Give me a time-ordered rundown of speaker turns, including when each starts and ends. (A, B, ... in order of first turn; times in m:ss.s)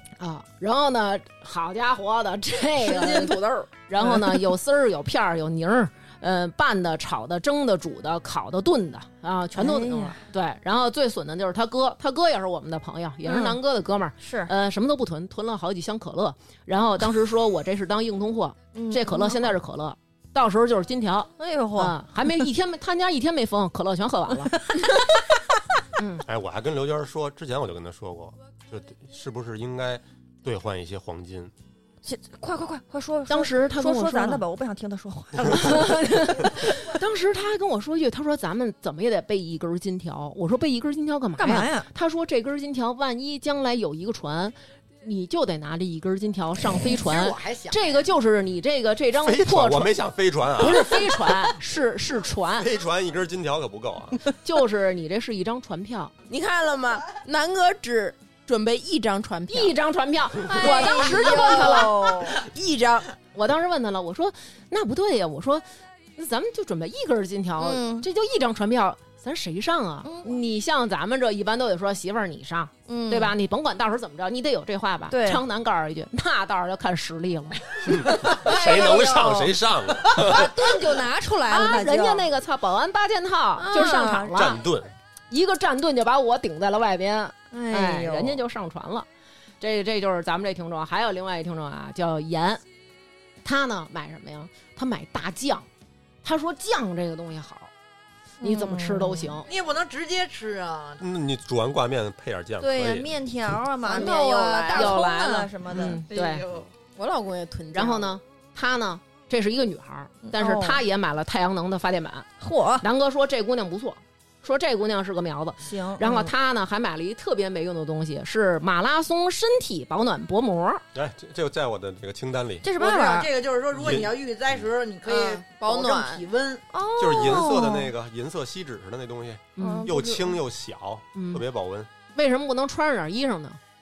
0:00.2-0:24.7 A
0:02.8-0:03.7 B
0:09.6-0:10.2 C
0:13.2-0:13.6 C
0:14.2-0:14.5 C
0:18.7-0:19.5 C
0:21.4-0:22.4 C
0:26.0-0:26.2 A
0:26.2-0:31.5 D
0:32.0-0:36.4 C
0:33.3-0:34.4 A
0:35.4-0:49.9 A
0:41.4-0:41.9 C
0:46.9-0:48.0 E
0:49.2-0:51.0 D
0:50.6-0:52.7 A
0:52.6-0:54.3 D
0:54.4-0:56.1 A
0:56.3-0:59.8 B
0:59.5-1:02.1 A
1:00.5-1:02.4 C
1:00.6-1:03.1 B
1:03.3-1:05.6 A
1:06.2-1:17.6 A
1:07.6-1:08.0 C
1:10.0-1:10.4 C
1:12.9-1:13.3 C
1:15.1-1:15.4 C
1:17.8-1:20.5 D
1:18.2-1:19.5 C
1:20.1-1:22.3 C
1:20.4-1:20.6 A
1:21.5-1:24.6 A
1:23.6-1:24.3 C
1:24.3-1:24.9 D
1:25.3-1:29.1 A
1:27.5-1:28.4 C
1:29.6-1:32.6 A
1:33.4-1:35.7 A
1:36.2-1:37.7 A
1:38.4-1:39.4 A
1:38.4-1:39.4 C
1:39.5-1:41.0 E
1:41.0-1:43.1 D
1:42.6-1:46.0 C
1:43.8-1:46.4 A
1:43.8-1:44.2 E
1:43.9-1:44.9 B
1:45.8-1:46.7 E
1:47.0-1:48.2 B
1:47.7-1:52.3 A
1:50.2-1:50.8 C
1:52.4-1:52.8 C
1:52.8-2:00.8 A
1:55.6-1:56.3 C
2:00.9-2:02.7 D
2:02.6-2:03.3 C
2:02.7-2:06.6 E
2:03.7-2:04.6 D
2:05.0-2:06.2 B
2:06.7-2:07.9 C
2:07.0-2:11.9 D
2:07.1-2:07.5 E
2:09.6-2:09.9 A
2:09.6-2:10.4 C
2:11.1-2:11.4 A
2:12.1-2:13.6 A